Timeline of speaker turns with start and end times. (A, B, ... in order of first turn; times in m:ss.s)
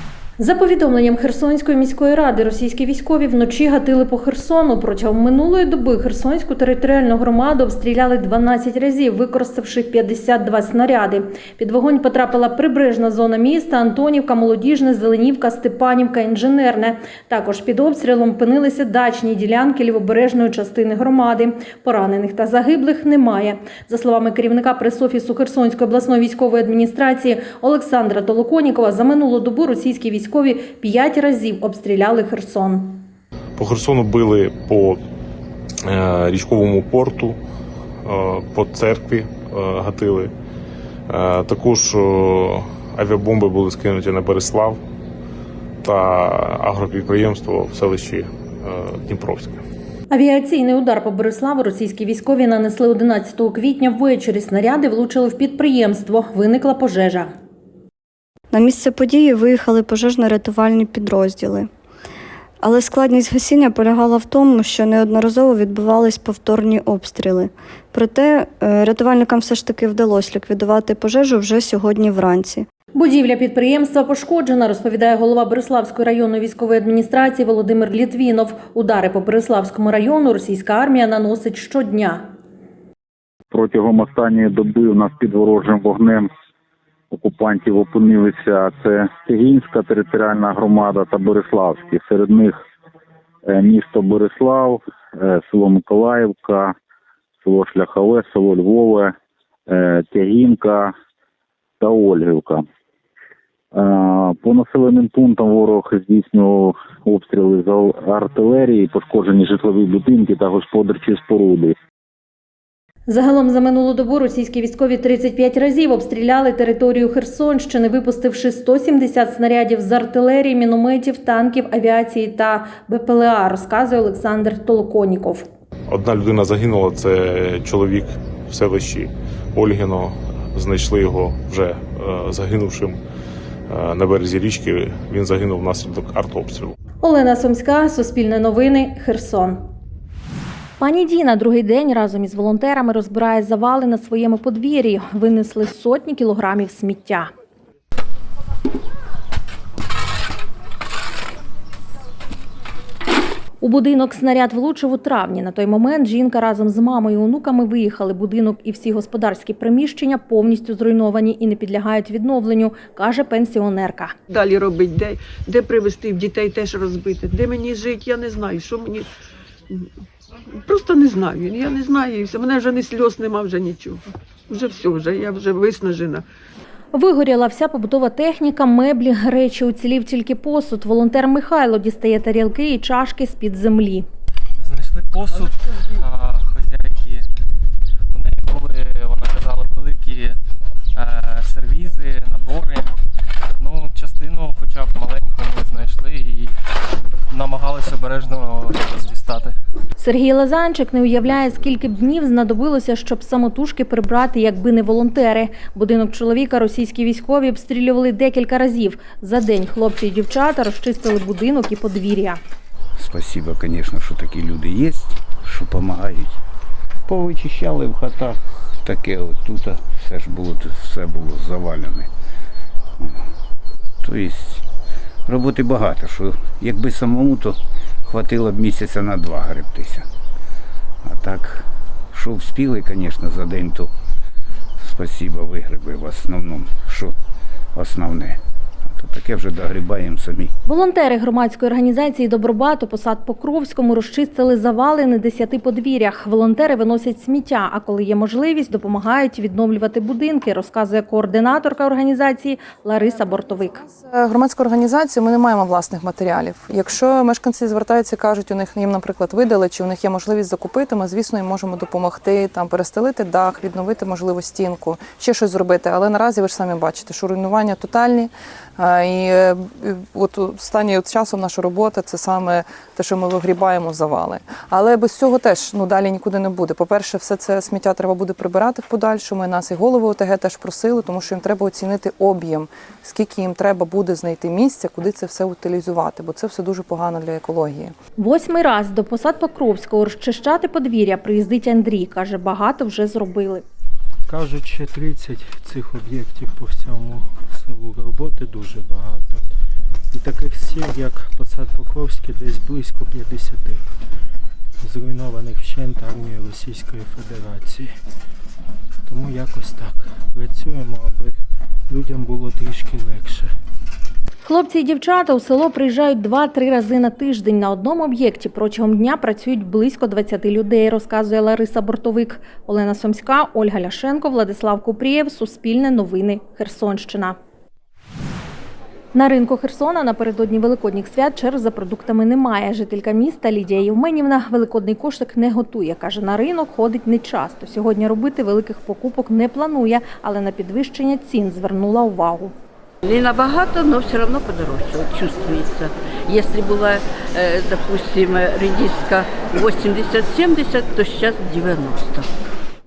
0:00.4-0:33.1 A
0:33.6-0:35.0 B
0:35.9-0:37.4 B
0:38.0-0:40.3 B
0:41.1-0:44.8 B
0:45.8-0:49.6 B
0:50.1-0:57.3 A
0:58.5-1:01.7 C
1:02.6-1:12.7 C
1:13.0-1:22.2 A
1:23.5-1:26.3 D
1:27.1-1:32.6 D
1:33.5-1:36.8 D
1:37.4-1:39.1 D
1:39.7-1:40.9 D
1:41.8-1:42.6 D
1:43.7-1:51.8 D
1:53.1-2:05.5 A
2:05.9-2:13.0 B
2:13.7-2:16.8 B
2:17.0-2:19.6 A
2:20.8-2:27.3 A
2:33.6-2:44.1 A
2:44.3-2:49.1 E
2:50.6-2:56.2 E
2:56.9-3:04.1 A
3:04.6-3:07.3 F
3:08.1-3:10.4 F
3:11.0-3:13.0 F
3:13.6-3:16.6 F
3:17.3-3:19.6 F
3:20.0-3:32.4 A
3:33.0-3:36.4 G
3:37.1-3:42.1 G
3:44.0-3:44.6 G
3:45.3-3:50.1 G
3:51.0-3:53.9 G
3:54.8-3:57.2 G
3:57.8-4:00.5 G
4:00.7-4:13.8 A
4:14.0-4:47.9 H
4:48.2-4:53.6 A
4:54.3-4:59.4 I
5:00.1-5:03.8 I
5:04.8-5:07.9 I
5:09.1-5:11.4 I
5:11.9-5:13.5 I
5:14.4-5:27.4 A
5:29.2-5:42.5 A
5:43.0-5:52.3 J